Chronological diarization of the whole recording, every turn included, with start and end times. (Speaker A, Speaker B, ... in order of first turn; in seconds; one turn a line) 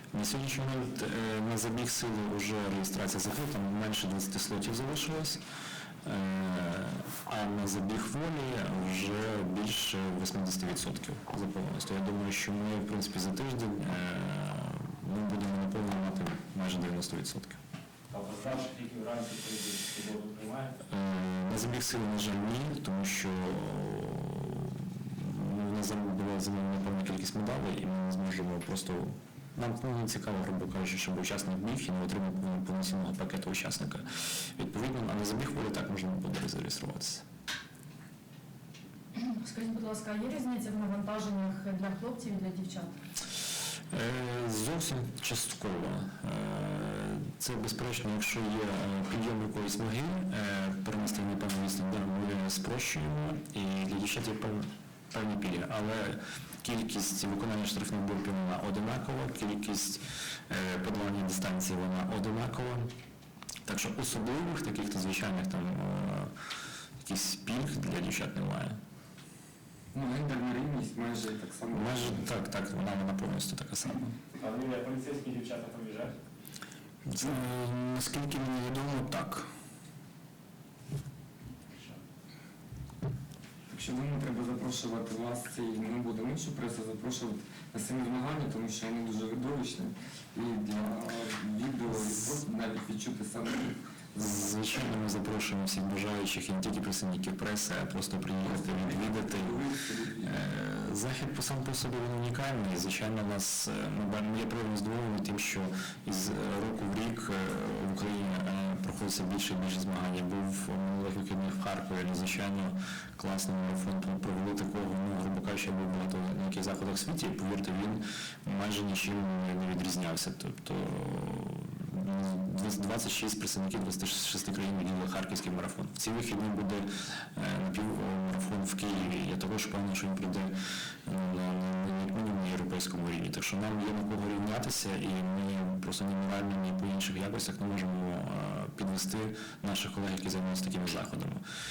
Speaker A: 0.1-5.4
Speaker A: 6.0-17.6
Speaker B: 18.1-20.8
Speaker A: 20.9-37.2
Speaker C: 39.1-42.9
Speaker A: 43.9-62.9
Speaker A: 63.6-66.3
Speaker A: 67.0-68.8
Speaker D: 69.9-72.3
Speaker A: 71.7-74.2
Speaker B: 74.4-76.1
Speaker E: 77.0-79.5
Speaker D: 83.7-93.8
Speaker A: 94.2-99.6
Speaker D: 98.4-100.4
Speaker A: 100.2-130.5
Speaker A: 131.0-141.4